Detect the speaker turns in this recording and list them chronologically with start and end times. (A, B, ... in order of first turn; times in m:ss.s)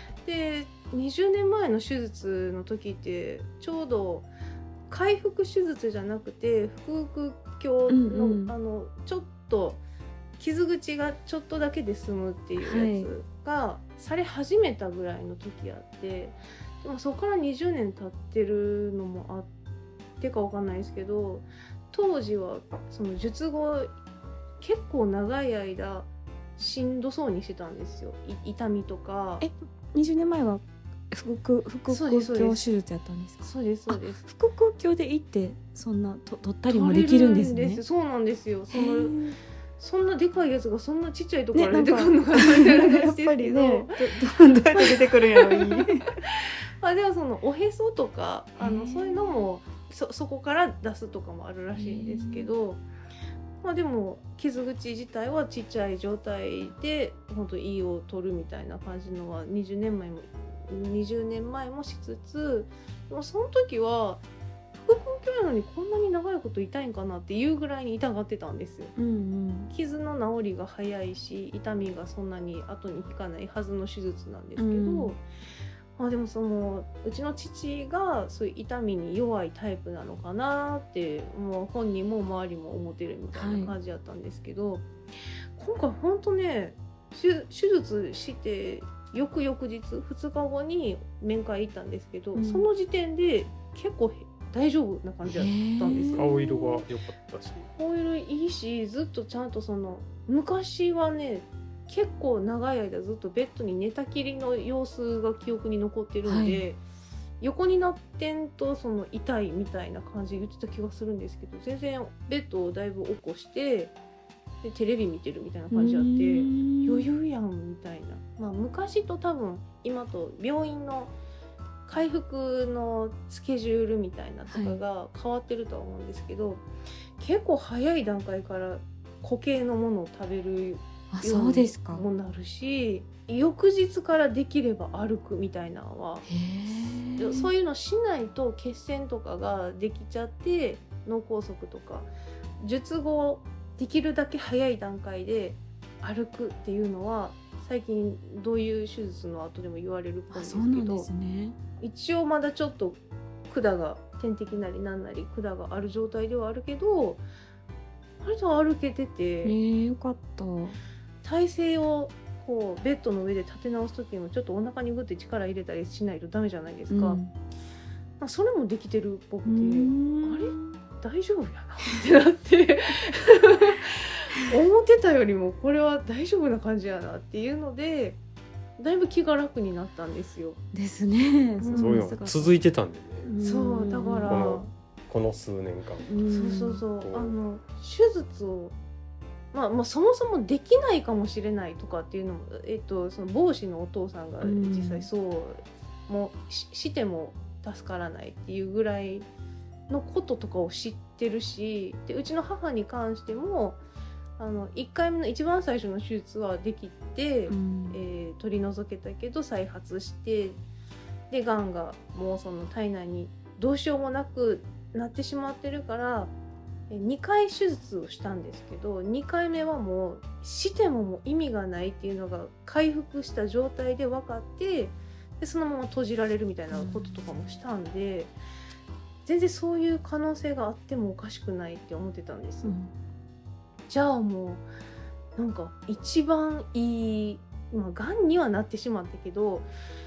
0:00.2-0:04.3 A
0:04.9-0:09.8 A
0:07.9-0:08.5 B
0:10.4-0:19.5 A
0:12.6-0:13.1 B
0:20.2-0:23.9 A
0:24.6-0:29.5 A
0:29.4-0:37.8 B
0:31.9-0:32.7 A
0:33.4-0:34.2 A
0:36.7-0:39.2 A
0:38.7-0:39.4 B
0:39.8-0:44.2 A
0:41.5-0:46.2 B
0:44.7-0:52.8 A
0:48.6-0:49.4 B
0:51.7-0:52.5 B
0:53.6-1:04.2 A
1:04.8-1:08.9 A
1:09.0-1:09.7 B
1:09.7-1:15.2 A
1:14.6-1:15.1 B
1:16.0-1:24.9 A
1:23.4-1:23.8 B
1:25.6-1:36.7 A
1:32.4-1:32.7 B
1:35.3-1:36.5 B
1:36.1-1:37.7 C
1:37.8-1:46.8 A
1:46.2-1:46.6 B
1:47.4-1:53.9 A
1:54.6-2:01.1 A
1:55.7-1:57.0 B
2:01.9-2:06.6 A
2:04.5-2:04.8 B
2:07.2-2:16.2 A
2:11.1-2:12.0 B
2:16.3-2:17.5 B
2:17.2-2:22.1 A
2:22.6-2:31.1 A
2:30.3-2:31.6 B
2:31.8-2:37.2 A
2:38.2-2:39.6 A
2:39.4-2:40.8 B
2:41.2-2:47.2 A
2:46.9-2:47.3 B
2:48.2-2:58.2 A
2:49.4-2:50.8 B
2:58.8-3:00.6 A
3:00.7-3:02.6 B
3:01.6-3:02.0 A
3:01.8-3:03.3 C
3:03.2-3:04.4 B
3:03.4-3:04.7 A
3:04.2-3:06.0 C
3:06.1-3:06.8 B
3:06.2-3:08.8 A
3:07.0-3:07.3 C
3:09.5-3:19.3 A
3:14.4-3:15.1 B
3:19.9-3:23.8 A
3:24.4-3:30.6 A
3:27.5-3:28.0 B
3:31.3-3:36.3 A
3:36.9-3:48.3 A
3:46.7-3:47.6 B
3:49.2-3:52.8 A
3:52.6-3:52.9 B
3:53.9-3:54.6 A
3:55.4-3:59.7 A